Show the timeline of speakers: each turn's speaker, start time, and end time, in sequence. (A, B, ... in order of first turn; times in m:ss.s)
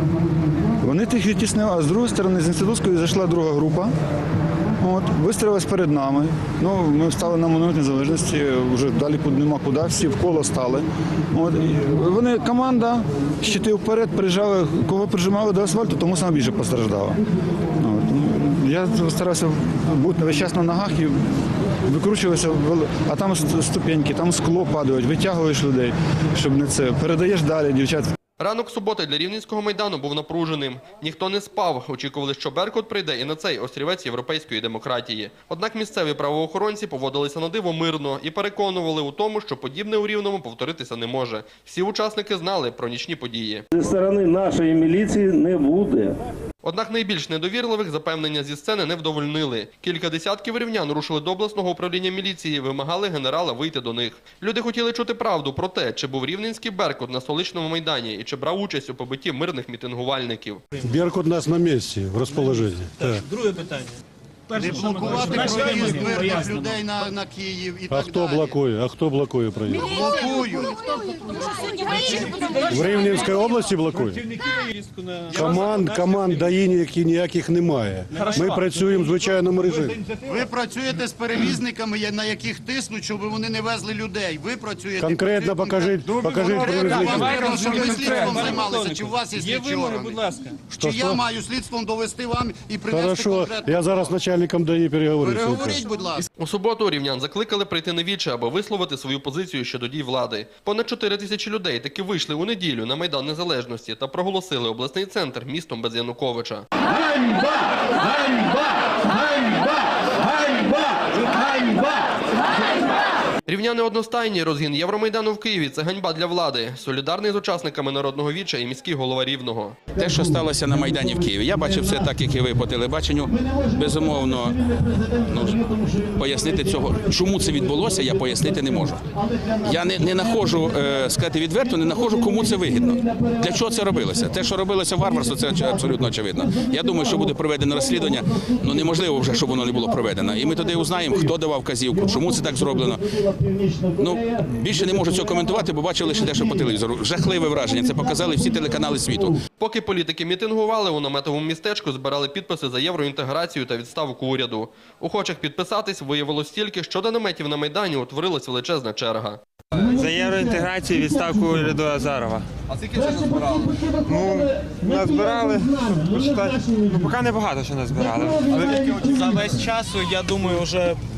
0:00.8-0:03.9 A
0:04.8-0:17.2 A
0:17.8-0:28.1 A
0:28.4-0:43.6 B
0:43.7-0:46.2 C
0:46.6-1:00.6 B
1:00.8-1:03.2 D
1:03.1-1:03.9 E
1:04.5-1:06.8 E
1:04.6-1:08.6 F
1:07.9-1:09.9 D
1:09.7-1:12.3 F
1:11.9-1:16.5 E
1:12.7-1:14.2 D
1:15.3-1:16.3 F
1:15.3-1:20.0 D
1:18.1-1:20.3 E
1:20.2-1:30.2 F
1:25.0-1:27.5 D
1:26.2-1:30.6 E
1:30.7-1:31.2 D
1:30.8-1:34.0 F
1:32.9-1:35.8 D
1:35.2-1:36.2 F
1:36.4-1:46.8 B
1:50.5-1:51.8 F
1:53.5-1:59.8 B
1:59.9-2:29.4 G
2:29.6-2:39.4 B
2:39.8-2:42.5 H
2:42.7-2:43.7 B
2:44.0-2:48.4 H
2:48.5-2:51.0 E